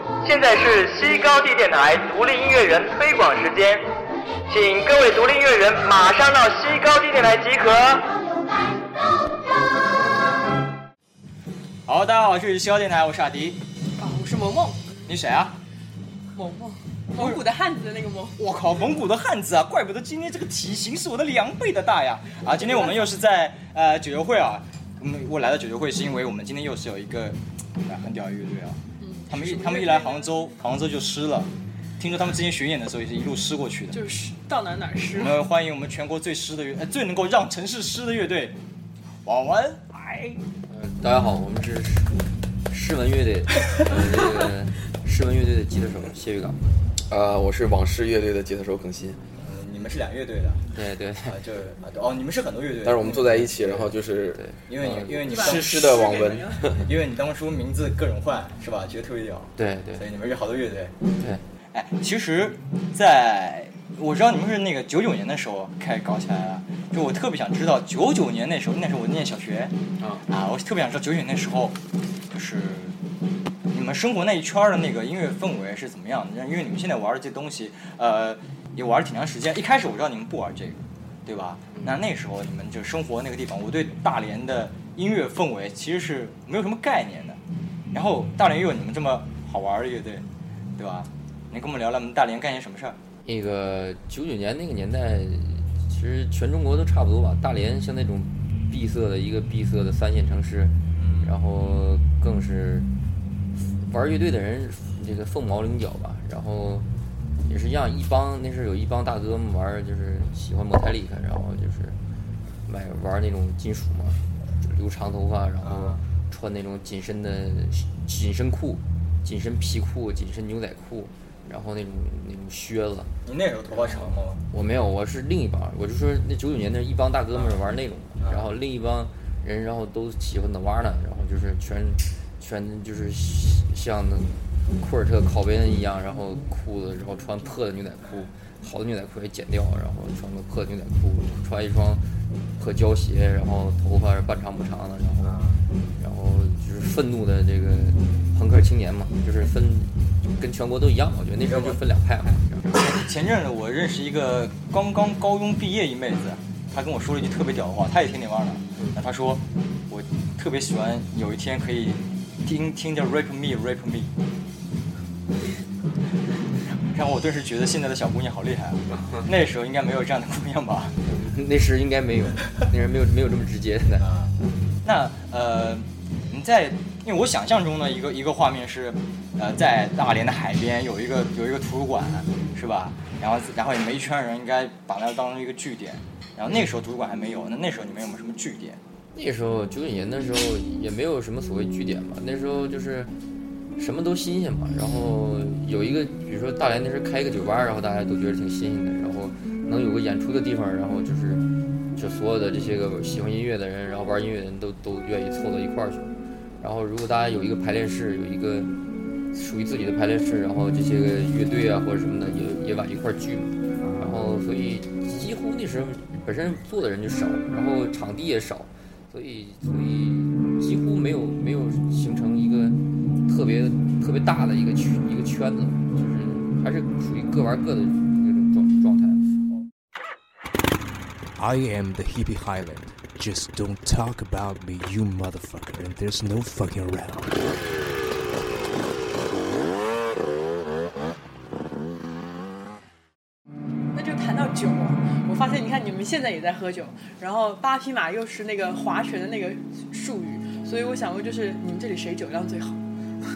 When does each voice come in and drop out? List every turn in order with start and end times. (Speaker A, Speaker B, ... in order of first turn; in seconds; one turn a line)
Speaker A: 0.2-3.8
Speaker A: 4.5-8.1
Speaker B: 11.9-13.6
Speaker C: 14.0-14.9
Speaker B: 15.1-15.6
Speaker C: 16.4-18.4
Speaker B: 17.1-17.4
Speaker B: 18.4-34.0
Speaker C: 22.5-23.1
Speaker C: 29.0-30.4
Speaker C: 33.9-35.4
Speaker B: 35.1-38.6
Speaker B: 39.2-40.4
Speaker D: 40.7-42.2
Speaker D: 42.7-46.6
Speaker E: 47.1-49.2
Speaker B: 49.4-50.6
Speaker D: 50.7-51.4
Speaker B: 51.3-53.9
Speaker E: 52.8-54.4
Speaker D: 54.3-55.2
Speaker B: 54.7-56.0
Speaker C: 55.3-56.7
Speaker E: 55.3-56.8
Speaker B: 56.8-60.9
Speaker D: 59.6-60.0
Speaker B: 61.7-69.7
Speaker D: 70.0-70.2
Speaker B: 70.3-71.8
Speaker B: 72.3-73.0
Speaker B: 73.7-87.4
Speaker B: 87.9-93.0
Speaker D: 93.2-102.9
Speaker B: 101.0-101.3
Speaker D: 103.6-106.9
Speaker D: 107.5-112.0
Speaker D: 112.7-123.1
Speaker B: 115.6-116.0
Speaker B: 123.3-124.4
Speaker D: 123.7-142.0
Speaker B: 127.3-127.6
Speaker B: 128.2-128.5
Speaker D: 142.6-145.4
Speaker B: 145.2-145.6
Speaker D: 146.0-152.9
Speaker B: 151.5-151.8
Speaker B: 152.7-164.1
Speaker B: 166.9-171.0
Speaker D: 171.1-174.1
Speaker B: 174.0-188.8
Speaker D: 189.1-193.1
Speaker D: 193.8-201.4
Speaker D: 201.9-206.1
Speaker D: 206.6-208.7
Speaker D: 209.3-229.2
Speaker F: 231.4-237.5
Speaker C: 243.9-252.8